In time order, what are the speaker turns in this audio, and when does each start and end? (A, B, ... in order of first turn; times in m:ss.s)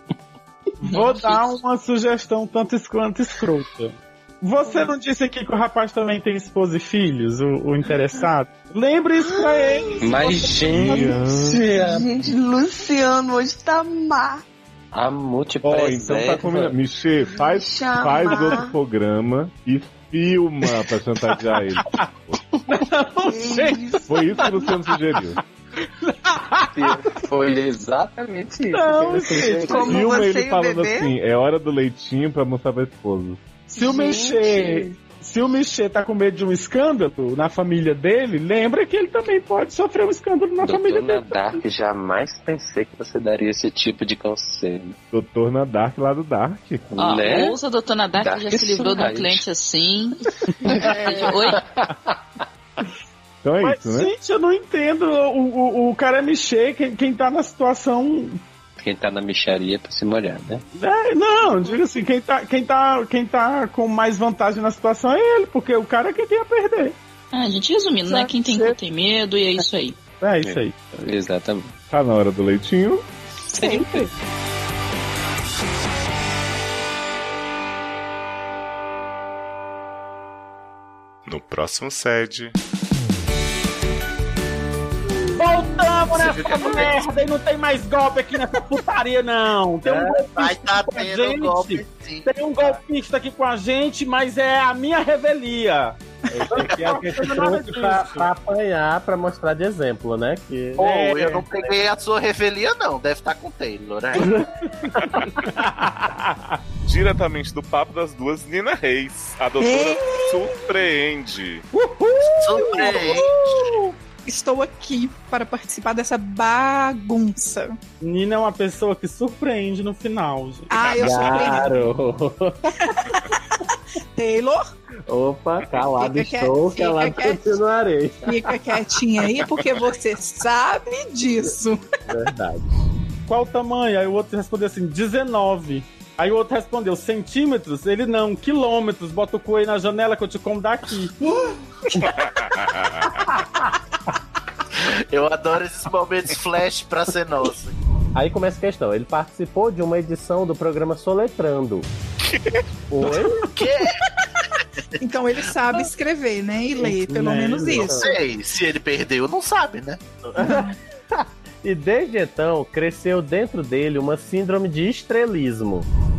0:00.8-0:11.0 A
0:00.8-0:01.6 B
0:09.2-0:10.1 C
0:10.0-0:12.1 D
0:10.7-0:11.6 E
0:11.5-0:14.4 C
0:14.9-0:16.8 D
0:15.6-0:22.4 E
0:17.5-0:18.7 C
0:22.8-0:24.0 A
0:23.2-0:24.8 C
0:24.1-0:25.4 E
0:26.0-0:26.9 A
0:26.7-0:30.0 D
0:28.7-0:29.9 A
0:29.6-0:31.1 C
0:29.9-0:33.4 E
0:33.7-0:41.4 A
0:33.8-0:35.0 C
0:40.6-0:45.0 D
0:45.1-0:46.9 E
0:46.9-0:47.6 D
0:47.0-0:51.6 B
0:48.2-0:49.4 D
0:50.6-0:52.4 D
0:53.4-0:54.1 E
0:53.6-0:58.4 A
0:58.8-1:00.6 D
1:00.8-1:07.0 A
1:07.3-1:10.0 B
1:08.1-1:08.7 A
1:10.2-1:10.9 A
1:10.4-1:11.7 D
1:11.9-1:13.0 E
1:13.5-1:14.1 D
1:13.6-1:14.0 C
1:21.3-1:22.5 F
1:25.4-1:38.3 A
1:26.0-1:27.2 G
1:29.8-1:32.8 G
1:29.9-1:30.2 H
1:36.3-1:40.8 H
1:36.6-1:37.4 G
1:40.8-1:44.3 G
1:40.8-1:41.5 A
1:45.6-1:46.0 A
1:46.8-1:51.6 F
1:49.6-1:50.6 I
1:51.7-1:53.0 A
1:52.2-1:53.6 G
1:52.8-1:57.7 I
1:58.0-2:00.7 A
2:00.7-2:01.8 I
2:00.8-2:01.1 F
2:01.0-2:02.5 H
2:02.9-2:03.4 I
2:04.1-2:04.6 I
2:05.1-2:08.6 H
2:05.7-2:07.6 I
2:08.2-2:11.8 I
2:12.1-2:12.7 H
2:13.3-2:21.1 A
2:22.2-2:23.0 F
2:25.1-2:27.7 G
2:28.1-2:31.9 H
2:32.9-2:33.4 H
2:33.4-2:33.9 G
2:34.9-2:35.8 G
2:35.0-2:38.0 I
2:36.8-2:37.9 A
2:37.8-2:38.1 H
2:37.8-2:40.4 G
2:40.4-2:40.8 I
2:40.4-2:45.8 H